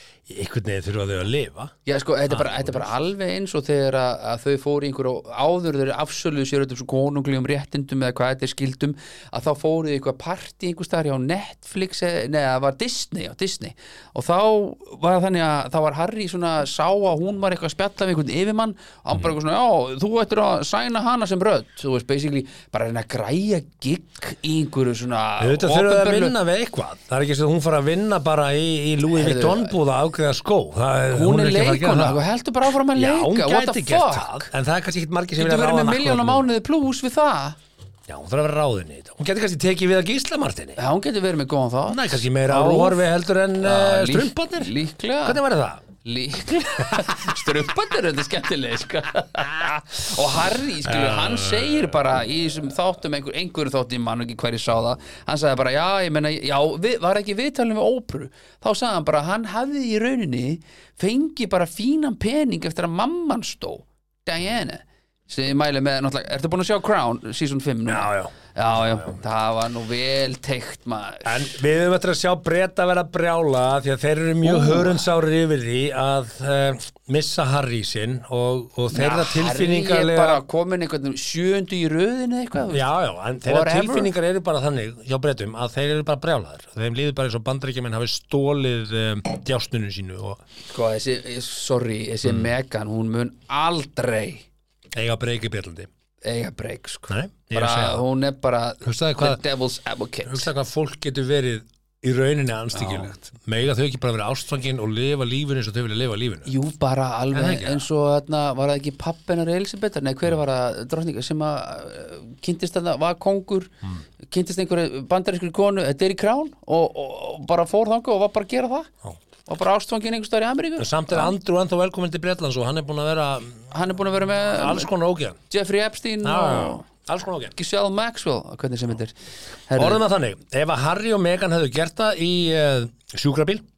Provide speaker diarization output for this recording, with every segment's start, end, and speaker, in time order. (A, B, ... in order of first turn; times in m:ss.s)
0:00.3-0:01.7 A
0:01.8-0:26.3 B
0:02.3-0:02.9 A
0:25.4-0:32.2 A
0:29.1-0:29.8 B
0:31.1-0:34.5 B
0:32.8-0:36.5 A
0:35.4-0:37.6 B
0:38.1-0:40.8 A
0:40.8-0:43.0 B
0:41.9-0:45.8 A
0:43.6-0:45.4 B
0:46.0-1:11.5 B
0:46.8-0:47.1 A
0:50.8-0:51.9 A
1:07.8-1:09.2 A
1:11.2-1:20.4 A
1:14.4-1:15.1 B
1:18.9-1:22.9 B
1:22.7-1:30.4 A
1:23.4-1:24.1 B
1:30.7-1:34.5 B
1:32.2-1:32.5 A
1:34.9-1:35.9 A
1:36.2-1:40.5 B
1:37.1-1:38.0 A
1:38.8-1:39.4 A
1:40.2-1:46.5 A
1:42.7-1:43.1 B
1:46.4-1:58.9 B
1:47.3-1:47.8 A
1:59.5-2:01.3 B
2:00.8-2:03.7 A
2:03.7-2:04.9 B
2:04.5-2:05.4 A
2:05.5-2:06.8 B
2:06.2-2:07.6 A
2:07.5-2:09.1 B
2:09.7-2:10.0 B
2:09.8-2:13.6 A